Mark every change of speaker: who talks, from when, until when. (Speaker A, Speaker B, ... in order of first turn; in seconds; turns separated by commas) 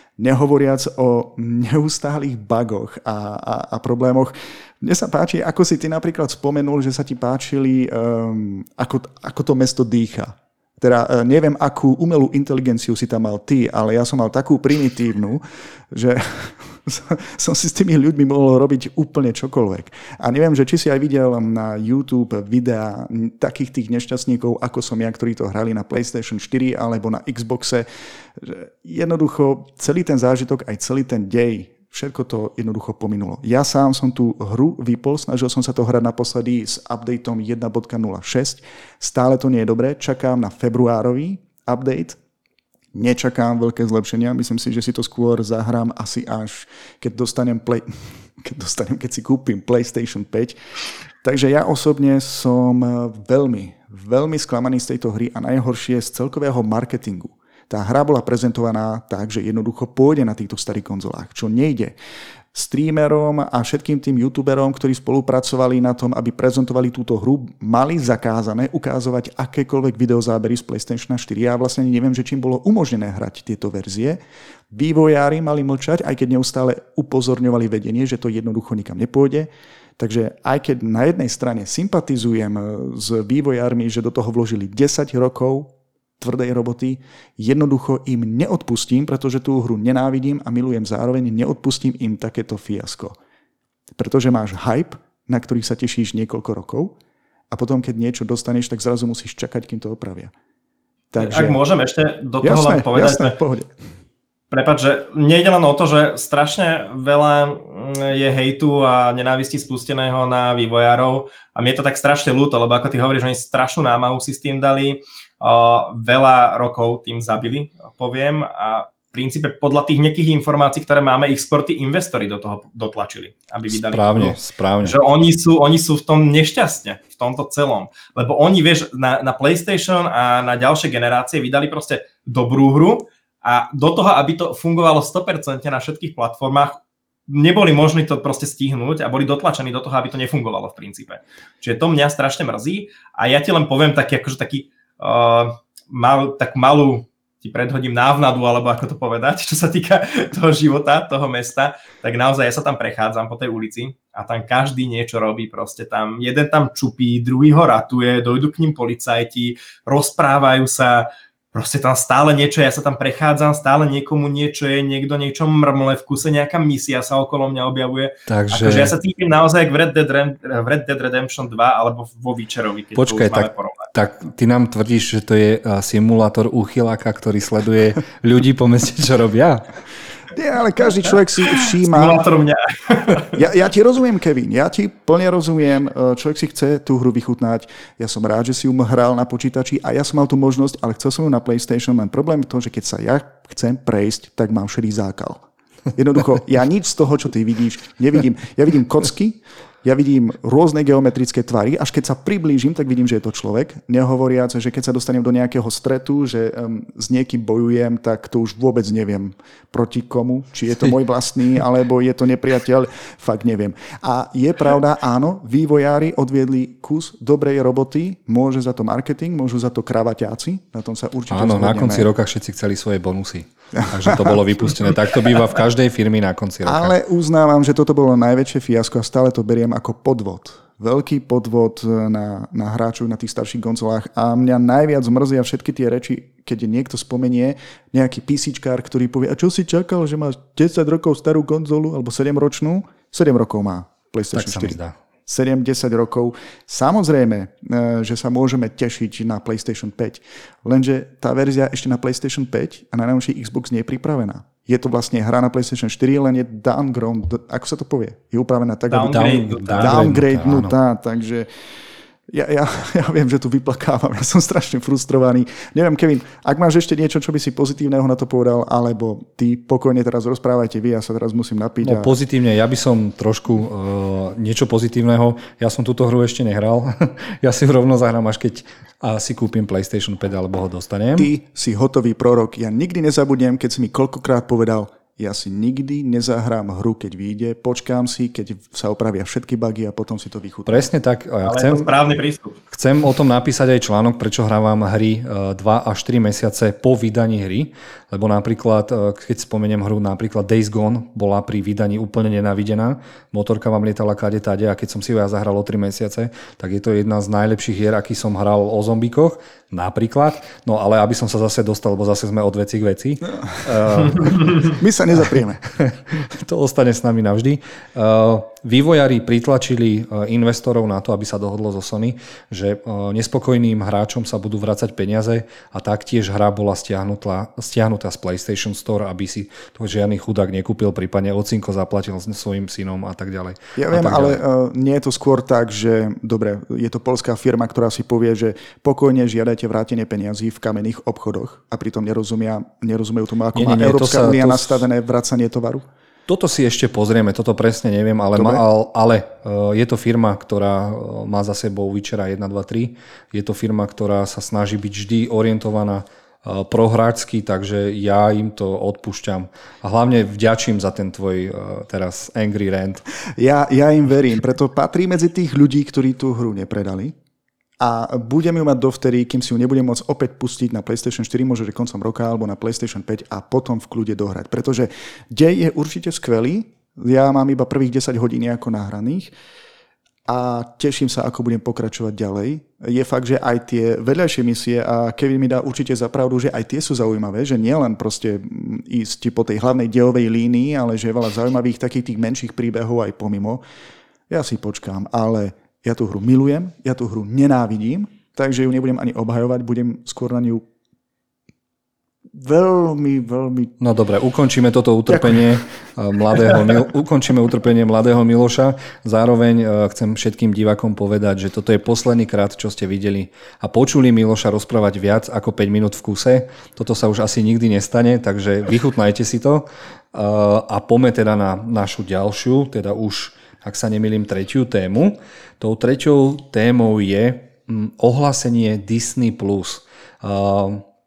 Speaker A: 0.2-27.9, Speaker A: 28.4-42.2, Speaker A: 42.9-50.6, Speaker A: 51.2-62.0, Speaker A: 62.5-74.2, Speaker A: 74.7-93.2, Speaker A: 93.9-96.9, Speaker A: 97.5-100.3, Speaker A: 101.1-101.6, Speaker B: 101.2-103.3, Speaker A: 102.4-103.7, Speaker B: 104.5-173.9, Speaker C: 123.7-125.0, Speaker C: 168.3-168.9, Speaker C: 172.9-179.7, Speaker A: 180.3-182.2, Speaker B: 181.5-183.4, Speaker A: 183.3-222.1, Speaker C: 221.3-226.9, Speaker A: 223.8-224.4, Speaker A: 226.6-261.5, Speaker C: 244.3-245.0, Speaker B: 258.9-260.1, Speaker C: 259.0-260.7, Speaker A: 262.3-272.1, Speaker C: 271.8-281.3, Speaker A: 281.2-290.9, Speaker C: 290.6-291.9, Speaker B: 291.4-292.6, Speaker C: 292.7-314.8, Speaker A: 313.5-315.6, Speaker C: 315.7-334.4, Speaker A: 333.8-345.8, Speaker C: 343.5-344.9, Speaker C: 346.3-363.0, Speaker A: 348.3-348.6, Speaker A: 363.4-367.1, Speaker A: 367.8-379.3, Speaker A: 380.3-393.6, Speaker A: 394.3-400.6, Speaker A: 402.3-403.7, Speaker C: 403.8-430.8, Speaker A: 405.1-405.6, Speaker A: 406.4-406.6